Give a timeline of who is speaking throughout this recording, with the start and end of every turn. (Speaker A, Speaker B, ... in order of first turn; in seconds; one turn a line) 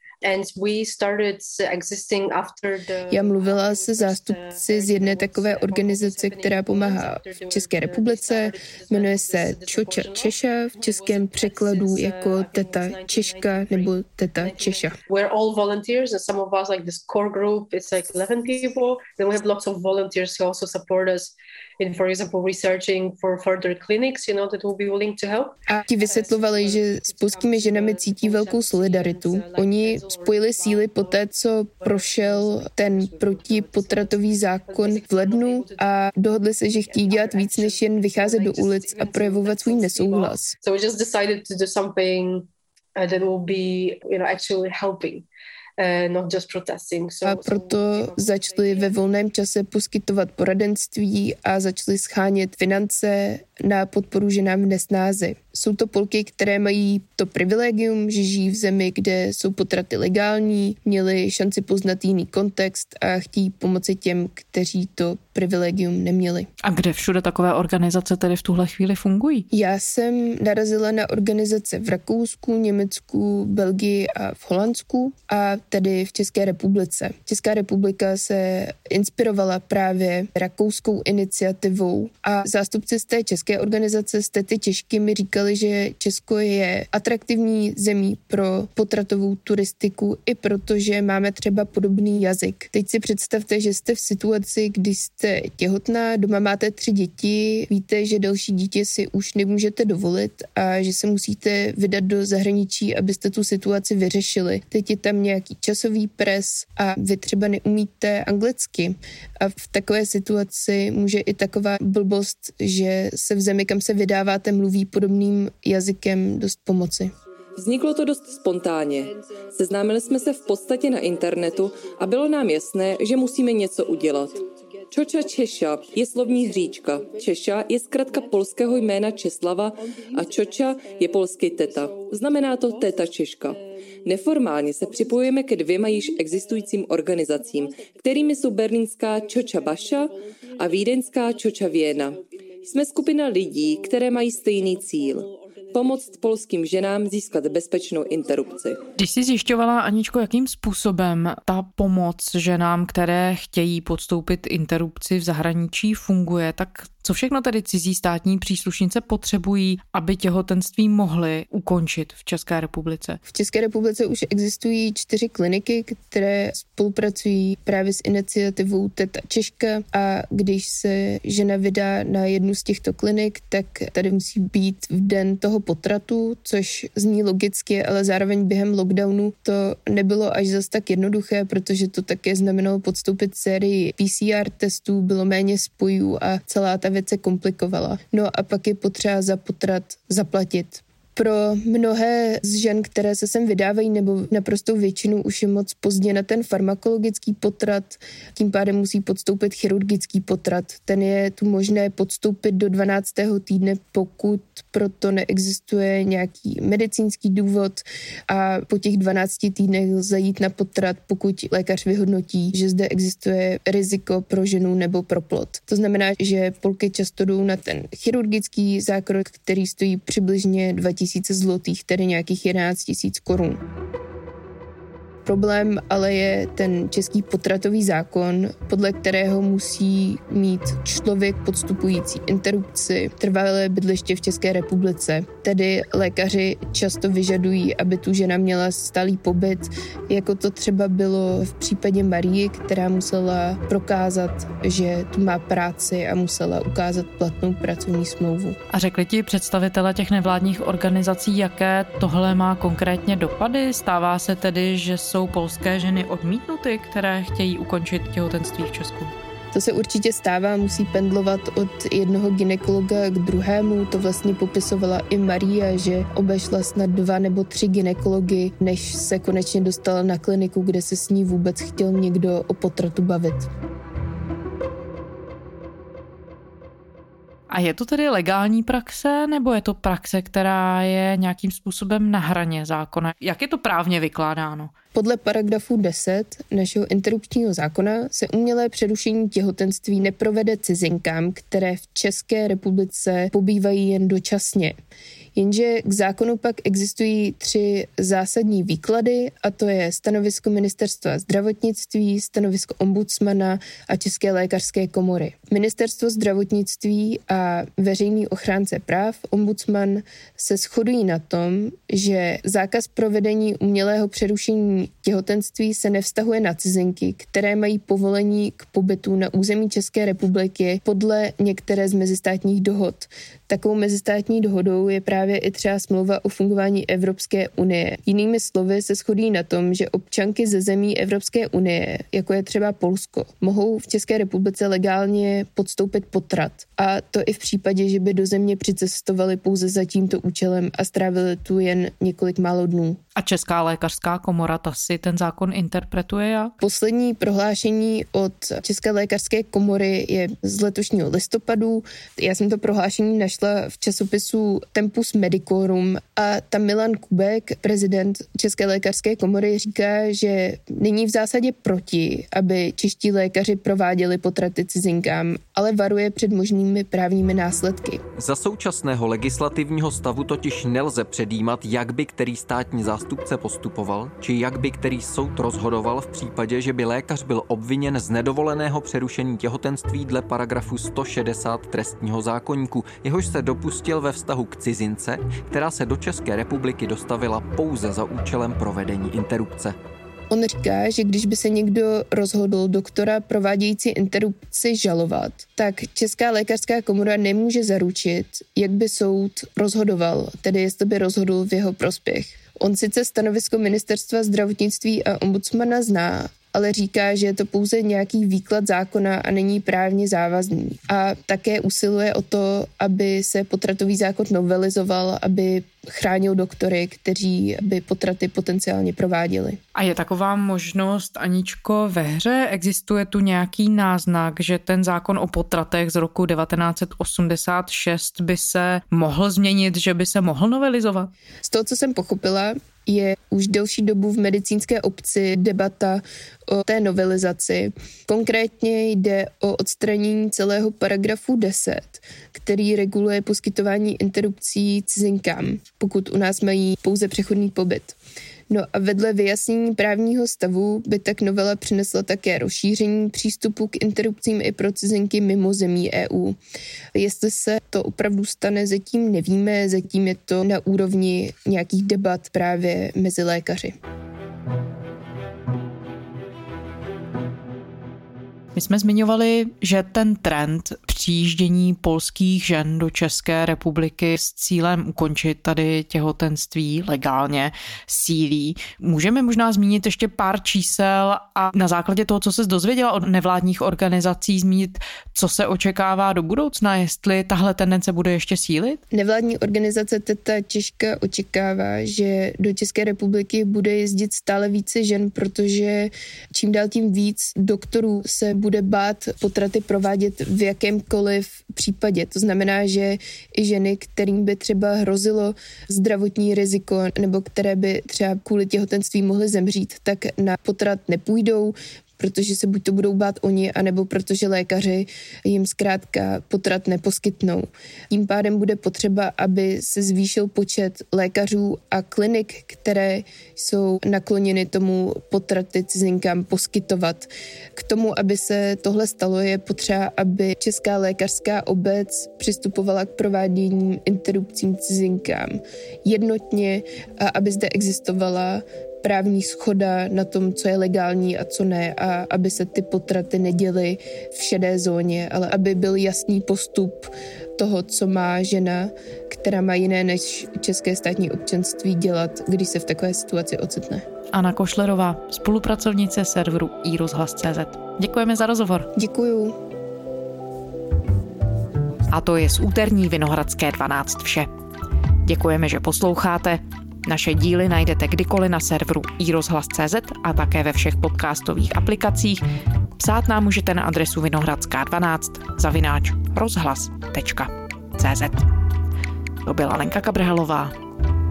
Speaker A: 0.2-36.1
Speaker B: 3.1-15.0
Speaker B: 25.7-40.5
Speaker A: 36.7-45.3
Speaker A: 45.8-49.3
Speaker B: 47.2-66.5
Speaker C: 66.6-69.5
Speaker B: 69.5-117.1
Speaker D: 117.5-148.8
Speaker C: 149.0-163.2
Speaker B: 163.3-223.6
Speaker B: 225.2-248.6
Speaker C: 248.7-259.1
Speaker B: 259.5-273.5
Speaker C: 277.5-284.7
Speaker B: 284.9-294.8
Speaker B: 295.3-343.0
Speaker C: 343.1-346.5
Speaker B: 346.6-368.0
Speaker E: 368.2-389.8
Speaker B: 390.3-419.6
Speaker C: 419.7-431.1
Speaker B: 431.4-447.9
Speaker B: 448.5-456.4
Speaker B: 456.9-463.7
Speaker C: 468.5-488.8
Speaker B: 488.9-553.8
Speaker C: 554.1-558.7
Speaker B: 558.7-559.4
Speaker C: 561.9-564.3
Speaker C: 565.0-572.2
Speaker C: 572.8-578.2
Speaker C: 579.2-580.5